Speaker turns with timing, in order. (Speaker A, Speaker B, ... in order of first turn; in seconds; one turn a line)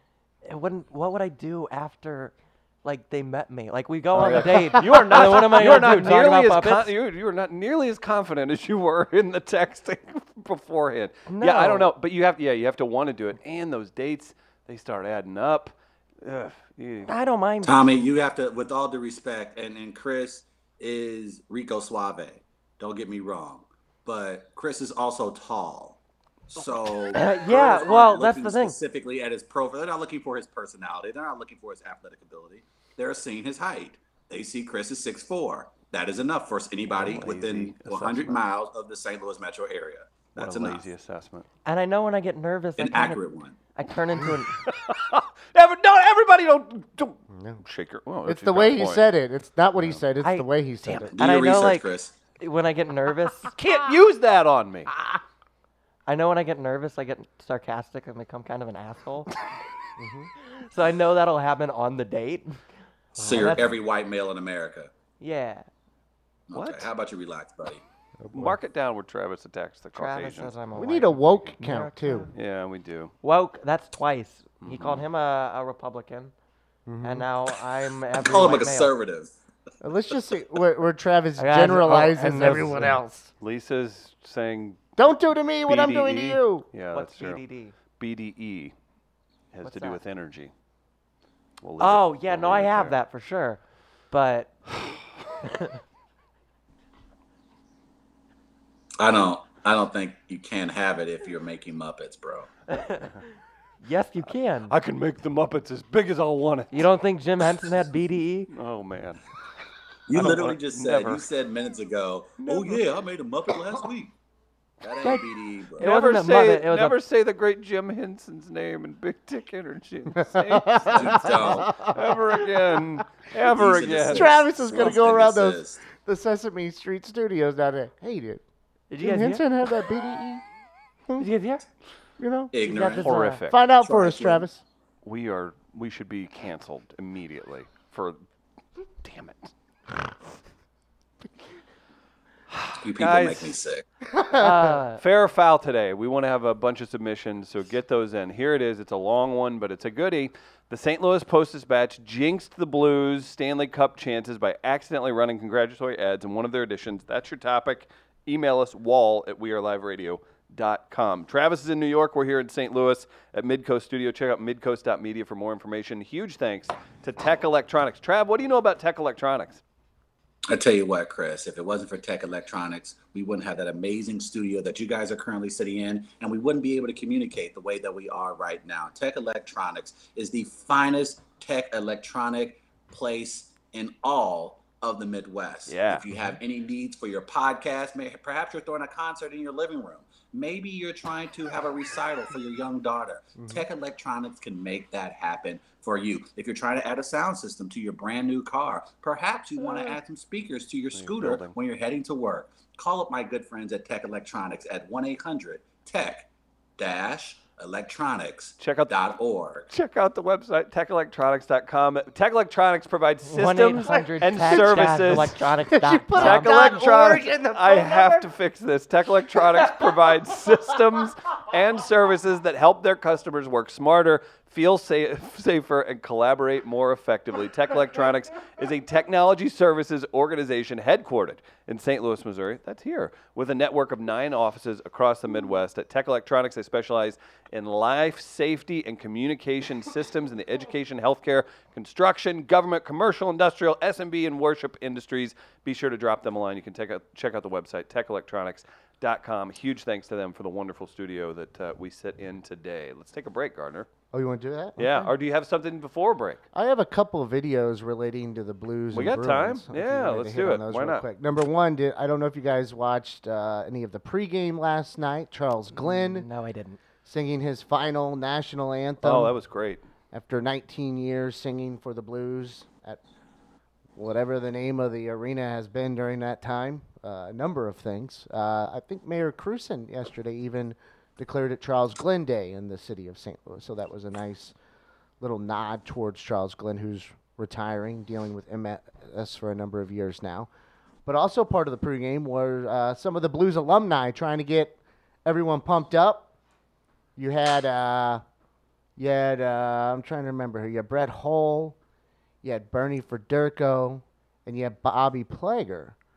Speaker A: 0.4-6.9
Speaker B: 4.1-17.1
Speaker C: 4.2-5.1
Speaker A: 11.3-11.9
Speaker A: 17.1-17.9
Speaker D: 17.6-40.8
Speaker A: 27.1-28.8
Speaker B: 36.9-38.4
Speaker B: 40.4-41.5
Speaker A: 41.6-43.2
Speaker D: 42.8-43.5
Speaker A: 43.7-44.6
Speaker B: 44.6-49.1
Speaker C: 47.3-47.6
Speaker C: 48.2-51.1
Speaker A: 50.2-53.5
Speaker D: 51.1-52.1
Speaker B: 53.5-54.9
Speaker A: 56.1-59.3
Speaker C: 60.0-60.3
Speaker A: 60.4-62.6
Speaker C: 63.1-63.7
Speaker D: 63.2-64.9
Speaker A: 63.2-63.8
Speaker A: 65.2-65.7
Speaker D: 66.5-67.8
Speaker B: 66.5-66.9
Speaker C: 68.2-68.6
Speaker B: 68.3-70.5
Speaker A: 69.9-72.3
Speaker C: 70.7-72.3
Speaker B: 72.3-73.1
Speaker A: 73.2-76.3
Speaker B: 74.6-75.0
Speaker C: 76.8-77.2
Speaker A: 77.0-78.9
Speaker D: 78.2-79.3
Speaker C: 79.8-83.3
Speaker A: 81.4-83.0
Speaker B: 83.4-84.8
Speaker C: 85.0-86.6
Speaker B: 85.7-87.4
Speaker A: 86.9-87.7
Speaker B: 88.0-88.7
Speaker B: 89.5-90.5
Speaker A: 89.6-90.0
Speaker B: 91.6-92.9
Speaker A: 91.8-93.6
Speaker A: 94.1-94.6
Speaker A: 95.4-95.8
Speaker D: 99.0-102.5
Speaker A: 102.7-103.2
Speaker A: 103.8-104.7
Speaker B: 104.7-106.9
Speaker A: 106.7-108.5
Speaker B: 108.5-109.2
Speaker D: 110.1-114.1
Speaker B: 110.1-111.2
Speaker B: 112.4-112.8
Speaker D: 114.8-115.9
Speaker A: 115.0-117.0
Speaker B: 115.8-124.4
Speaker C: 120.2-123.0
Speaker D: 120.9-121.7
Speaker D: 123.5-125.8
Speaker C: 124.0-128.4
Speaker A: 128.9-129.4
Speaker C: 129.0-130.4
Speaker A: 131.2-131.6
Speaker C: 132.2-132.5
Speaker D: 132.5-133.2
Speaker A: 132.6-133.4
Speaker B: 132.7-133.6
Speaker C: 133.5-134.6
Speaker D: 133.7-134.5
Speaker B: 135.0-138.2
Speaker B: 139.0-139.5
Speaker B: 142.5-143.6
Speaker D: 142.8-143.8
Speaker C: 144.1-144.7
Speaker A: 144.3-145.0
Speaker B: 145.0-169.6
Speaker D: 170.5-209.7
Speaker B: 185.7-186.1
Speaker B: 200.9-201.5
Speaker B: 208.6-208.9
Speaker B: 209.7-215.4
Speaker A: 213.2-216.7
Speaker C: 213.8-215.0
Speaker C: 215.7-218.2
Speaker B: 216.1-253.9
Speaker C: 219.3-220.0
Speaker C: 254.1-255.1
Speaker B: 254.8-256.4
Speaker C: 256.5-266.3
Speaker B: 258.9-261.1
Speaker A: 265.7-266.8
Speaker C: 267.1-269.4
Speaker B: 269.0-269.8
Speaker C: 270.1-273.0
Speaker C: 273.9-284.5
Speaker C: 285.2-290.5
Speaker C: 291.1-296.3
Speaker C: 297.1-298.2
Speaker C: 299.0-301.8
Speaker C: 302.4-305.9